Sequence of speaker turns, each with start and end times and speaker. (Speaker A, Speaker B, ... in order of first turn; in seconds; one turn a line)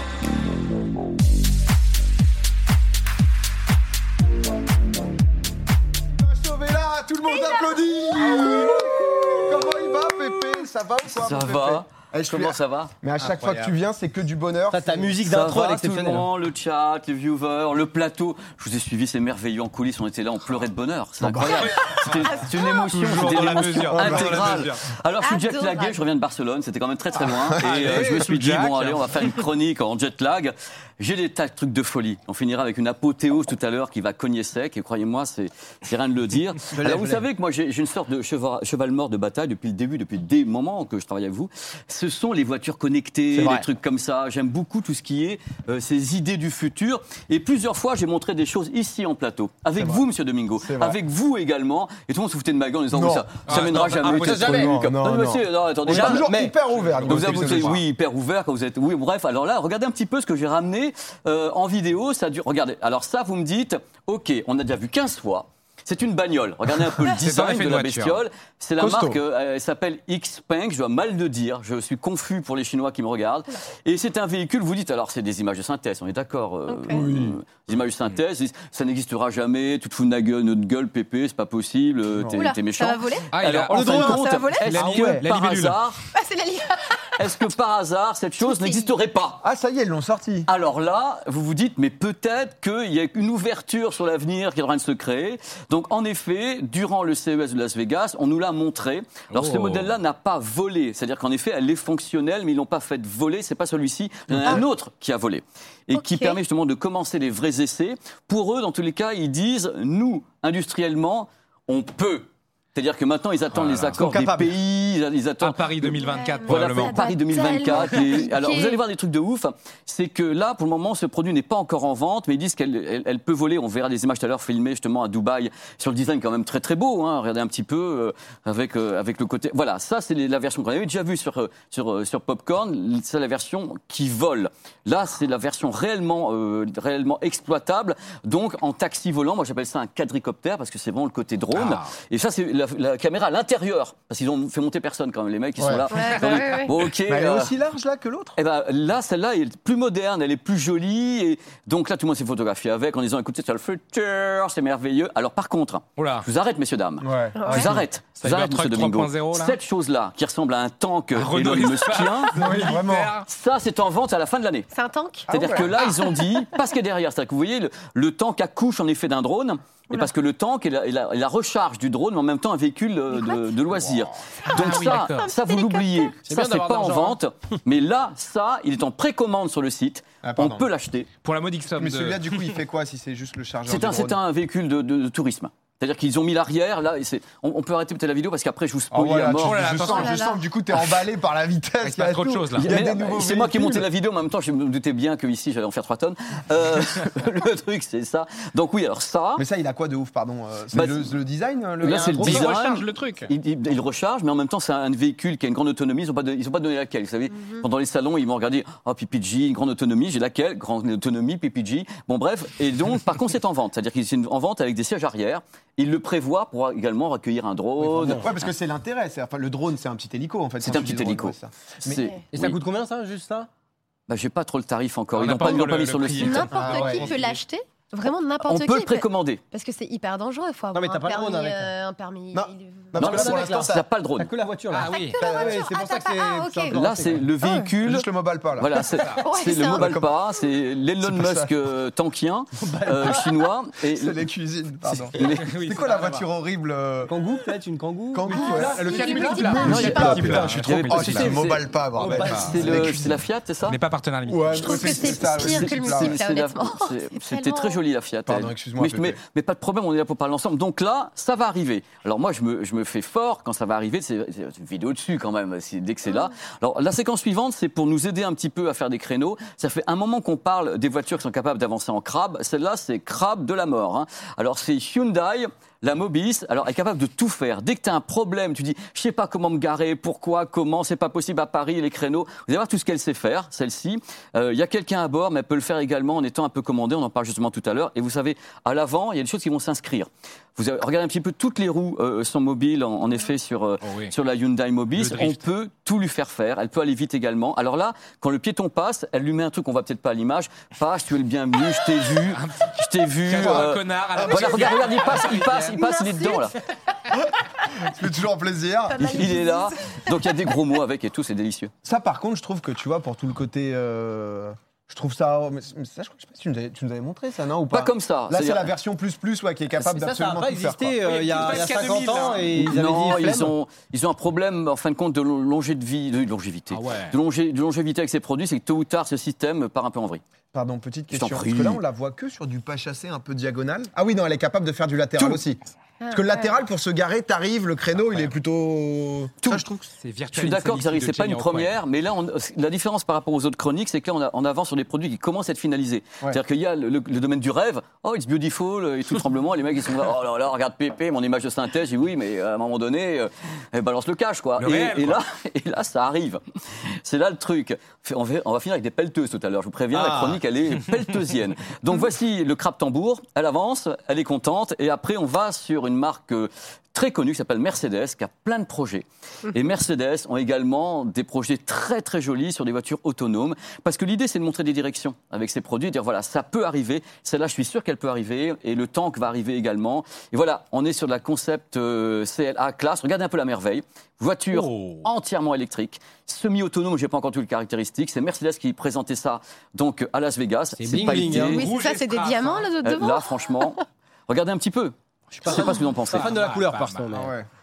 Speaker A: 6.0-15.2
Speaker B: 7.3-8.7
Speaker C: 8.3-8.6
Speaker D: 11.1-12.9
Speaker C: 13.2-13.7
Speaker E: 14.7-16.3
Speaker D: 15.2-56.3
Speaker A: 21.2-22.3
Speaker C: 21.4-24.9
Speaker B: 22.3-22.6
Speaker A: 23.0-24.7
Speaker B: 25.2-26.0
Speaker A: 27.1-28.2
Speaker C: 27.6-29.4
Speaker E: 36.7-37.2
Speaker A: 43.3-43.7
Speaker A: 49.7-51.0
Speaker A: 52.9-57.8
Speaker C: 53.5-54.4
Speaker E: 53.7-54.8
Speaker E: 55.9-56.6
Speaker C: 56.8-57.8
Speaker D: 57.0-86.0
Speaker C: 67.0-68.2
Speaker A: 68.8-69.2
Speaker B: 76.7-77.1
Speaker A: 76.9-77.4
Speaker B: 82.3-84.7
Speaker C: 83.3-85.8
Speaker A: 84.8-85.2
Speaker B: 86.1-87.4
Speaker D: 87.2-89.4
Speaker B: 88.4-88.9
Speaker A: 89.4-90.5
Speaker D: 90.5-147.5
Speaker C: 99.3-99.9
Speaker B: 105.9-106.4
Speaker C: 113.5-114.1
Speaker A: 114.0-114.5
Speaker C: 115.4-117.2
Speaker B: 116.0-118.8
Speaker C: 141.5-141.9
Speaker A: 145.6-145.8
Speaker B: 145.9-146.7
Speaker A: 147.0-148.4
Speaker D: 148.3-162.6
Speaker C: 156.0-156.3
Speaker A: 157.0-157.7
Speaker B: 157.3-157.8
Speaker C: 157.5-159.6
Speaker C: 161.1-163.3
Speaker A: 162.3-163.1
Speaker D: 163.2-164.7
Speaker B: 164.7-166.4
Speaker A: 165.3-165.7
Speaker D: 165.3-181.1
Speaker C: 174.4-175.3
Speaker B: 174.7-176.2
Speaker E: 176.2-177.2
Speaker A: 180.2-180.7
Speaker C: 181.2-182.4
Speaker A: 181.7-184.2
Speaker D: 183.7-189.8
Speaker A: 188.9-193.9
Speaker C: 189.4-190.2
Speaker B: 189.8-190.4
Speaker C: 191.8-192.8
Speaker D: 192.5-199.4
Speaker A: 199.4-202.5
Speaker D: 200.7-201.1
Speaker D: 201.8-218.4
Speaker C: 202.2-203.3
Speaker E: 217.8-218.2
Speaker A: 218.1-222.1
Speaker D: 220.6-222.6
Speaker E: 222.3-223.5
Speaker D: 224.1-226.5
Speaker C: 225.1-227.3
Speaker B: 226.2-232.9
Speaker A: 226.5-227.2
Speaker D: 228.4-229.4
Speaker E: 230.7-231.7
Speaker A: 232.3-233.8
Speaker E: 232.9-237.3
Speaker D: 233.0-234.3
Speaker C: 234.7-235.2
Speaker B: 234.8-236.8
Speaker A: 235.2-235.6
Speaker D: 236.7-244.2
Speaker B: 237.4-237.7
Speaker A: 237.8-239.0
Speaker B: 239.0-240.0
Speaker A: 239.5-240.1
Speaker A: 241.0-241.5
Speaker E: 242.6-243.3
Speaker A: 243.8-247.2
Speaker C: 244.9-246.2
Speaker D: 245.1-245.5
Speaker E: 247.1-249.7
Speaker A: 248.1-253.2
Speaker B: 248.3-250.6
Speaker C: 248.5-251.3
Speaker D: 249.6-253.8
Speaker E: 252.0-253.0
Speaker C: 252.1-252.6
Speaker C: 253.7-255.0
Speaker A: 254.2-256.2
Speaker B: 254.6-257.8
Speaker D: 255.1-306.6
Speaker A: 258.2-259.2
Speaker C: 293.8-294.1
Speaker C: 294.9-295.4
Speaker C: 302.2-305.8
Speaker A: 304.1-304.9
Speaker B: 305.3-306.6
Speaker A: 307.1-309.5
Speaker B: 308.9-310.6
Speaker D: 309.0-311.7
Speaker A: 311.8-321.1
Speaker D: 317.7-318.7
Speaker E: 319.8-323.5
Speaker C: 321.0-322.6
Speaker D: 322.5-330.2
Speaker C: 326.7-327.1
Speaker A: 330.5-339.8
Speaker D: 331.1-331.8
Speaker B: 336.0-336.5
Speaker C: 337.9-338.3
Speaker C: 339.9-341.7
Speaker D: 340.3-391.6
Speaker C: 354.6-355.2
Speaker C: 384.5-385.1
Speaker E: 390.8-391.7
Speaker C: 391.0-392.7
Speaker B: 391.3-393.7
Speaker D: 392.8-394.9
Speaker E: 395.3-397.3
Speaker D: 395.4-396.4
Speaker C: 396.1-397.1
Speaker A: 397.1-397.5